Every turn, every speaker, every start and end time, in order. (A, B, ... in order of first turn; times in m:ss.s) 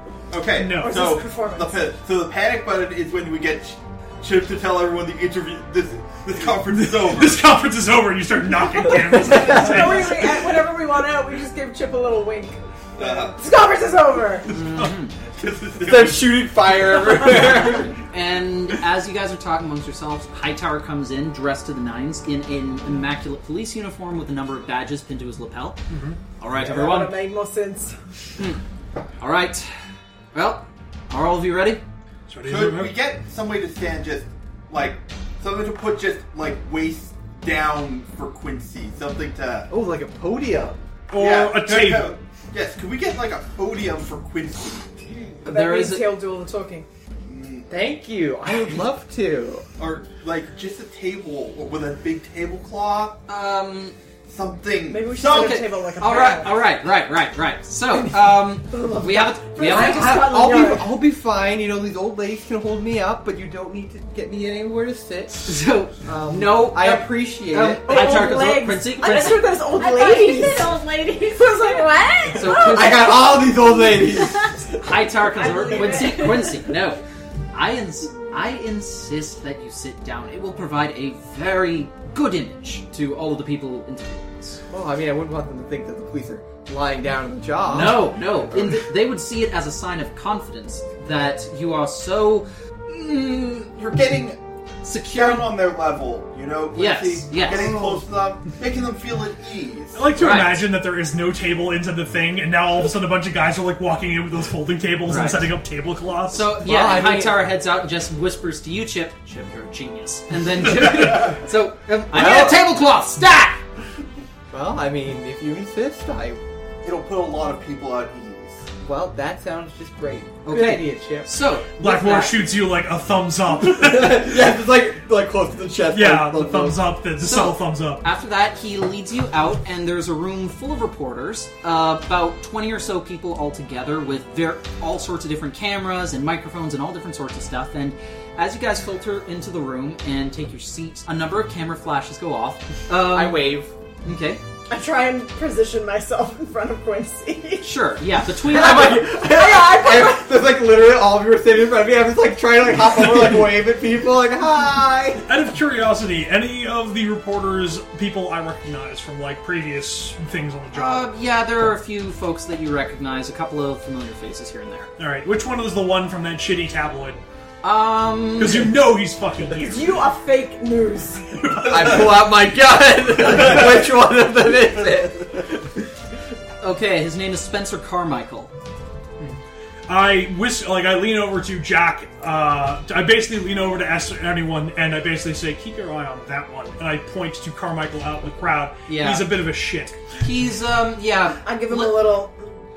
0:00.3-0:07.4 A
0:00.6-0:01.1 B
0:00.8-0:01.8 C
0:06.7-0:10.4 B
0:08.9-0:14.5 C
0:13.0-0:13.4 A
0:14.5-0:15.1 D
0:14.7-0:16.4 A
0:15.8-0:18.0 E
0:18.0-0:25.8 D
0:25.9-0:26.2 B
0:26.4-0:27.2 D
0:26.5-0:28.0 C
0:29.2-0:29.7 D
0:30.3-0:31.8 D
0:32.3-0:33.0 B
0:32.4-0:39.7 A
0:39.7-0:40.8 E
0:41.1-0:42.2 B
0:41.2-0:44.9 A
0:45.4-0:46.8 C
0:45.4-0:46.1 D
0:47.2-0:47.7 A
0:47.7-0:49.6 E
0:49.8-0:53.2 A
0:53.3-0:54.0 D
0:54.3-0:55.6 A
0:54.9-0:56.6 C
0:55.2-1:00.3 D
0:58.7-1:01.0 C
0:59.6-1:08.4 E
1:05.4-1:09.6 D
1:07.7-1:10.8 C
1:08.9-1:12.9 F
1:11.3-1:12.7 C
1:12.3-1:13.3 D
1:12.6-1:14.8 E
1:14.8-1:24.6 D
1:15.4-1:16.3 C
1:15.4-1:16.7 F
1:24.7-1:28.8 E
1:27.7-1:32.5 D
1:32.9-1:34.4 A
1:34.8-1:35.6 D
1:35.0-1:40.1 A
1:36.7-1:37.7 D
1:37.4-1:38.0 E
1:39.9-1:46.5 B
1:40.1-1:40.7 D
1:45.1-1:45.5 D
1:46.3-1:53.6 D
1:46.6-1:47.5 E
1:52.1-1:52.7 E
1:54.5-1:56.4 E
1:56.8-1:58.6 A
1:58.8-2:01.3 E
2:00.4-2:02.4 D
2:01.8-2:04.4 B
2:03.6-2:06.8 E
2:05.9-2:08.0 B
2:07.2-2:24.4 D
2:23.0-2:23.7 E
2:24.7-2:27.8 C
2:27.6-2:29.1 D
2:28.5-2:35.2 E
2:29.2-2:30.3 C
2:35.2-2:41.1 B
2:40.7-2:44.9 D
2:45.0-2:47.2 B
2:47.6-2:48.7 D
2:48.4-2:50.0 B
2:49.6-2:51.4 C
2:51.3-2:52.3 B
2:51.6-2:55.8 E
2:56.6-2:58.5 D
2:59.2-3:10.2 B
3:08.9-3:09.3 D
3:10.2-3:12.2 D
3:11.4-3:12.4 C